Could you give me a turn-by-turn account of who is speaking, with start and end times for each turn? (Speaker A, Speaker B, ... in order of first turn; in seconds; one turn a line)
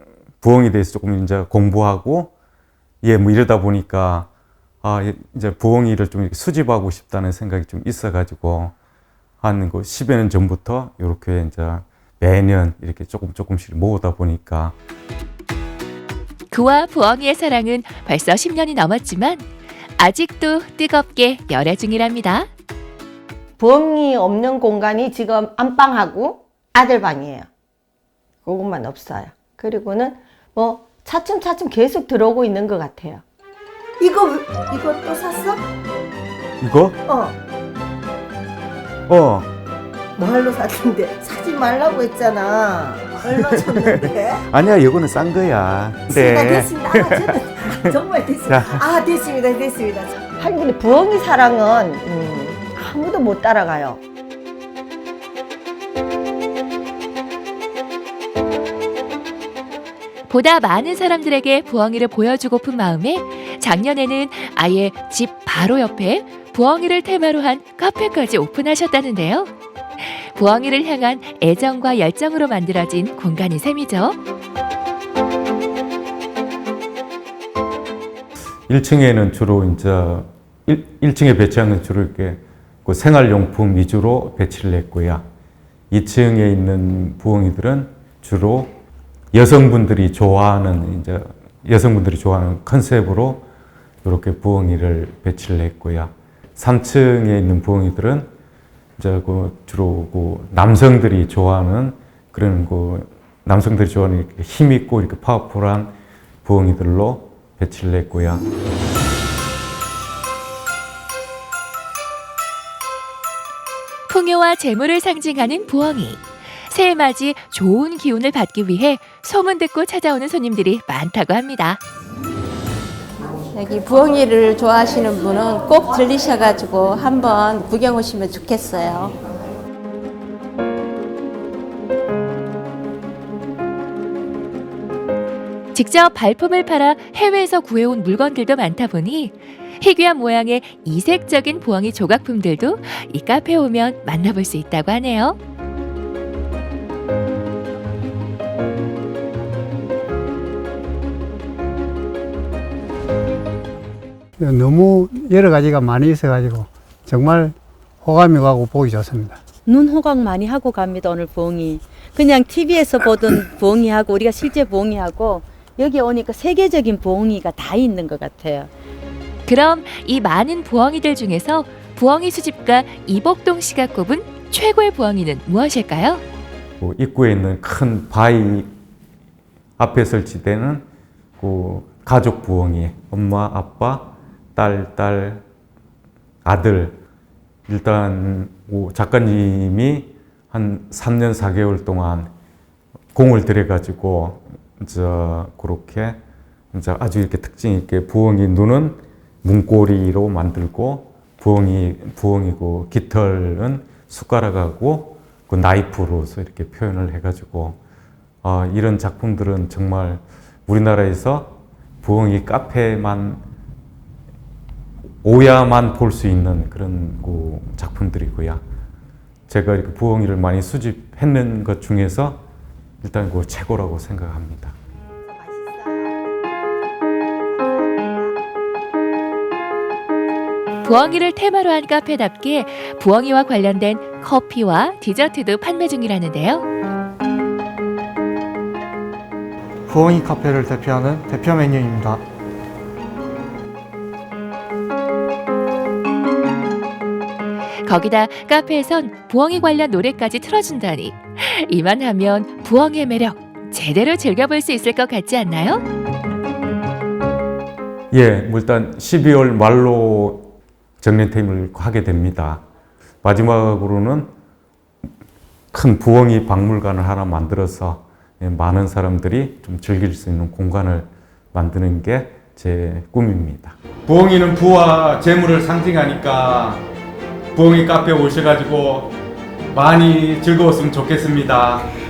Speaker A: 0.4-2.3
Speaker A: 3.0-4.3
Speaker A: 4.8-8.8
Speaker A: 9.4-14.8
Speaker B: 16.5-19.5
Speaker B: 20.0-22.5
Speaker C: 23.6-27.5
Speaker C: 28.4-33.2
Speaker C: 34.0-35.6
Speaker A: 36.6-37.0
Speaker C: 37.1-37.3
Speaker A: 39.1-39.5
Speaker C: 40.2-44.4
Speaker A: 43.4-48.8
Speaker C: 46.1-54.0
Speaker B: 60.3-74.2
Speaker A: 78.7-85.2
Speaker A: 85.9-88.8
Speaker A: 89.3-93.5
Speaker A: 94.0-98.3
Speaker A: 99.0-105.9
Speaker A: 106.5-108.4
Speaker B: 114.1-121.8
Speaker D: 123.5-129.1
Speaker B: 135.7-145.4
Speaker E: 154.4-159.4
Speaker F: 159.7-168.7
Speaker B: 169.5-176.2
Speaker A: 176.8-178.7
Speaker A: 179.8-180.8
Speaker A: 181.4-185.4
Speaker A: 186.4-187.0
Speaker A: 187.7-192.3
Speaker A: 193.1-196.2
Speaker A: 196.7-207.8
Speaker A: 208.4-213.4
Speaker A: 215.2-218.6
Speaker A: 219.5-222.4
Speaker A: 223.0-224.8
Speaker C: 225.3-226.2
Speaker C: 227.3-228.3
Speaker B: 230.8-236.7
Speaker G: 239.9-242.2
Speaker B: 247.8-255.8
Speaker A: 258.1-262.6
Speaker A: 263.2-264.3
Speaker A: 265.7-276.8
Speaker A: 277.6-279.1
Speaker A: 279.7-281.9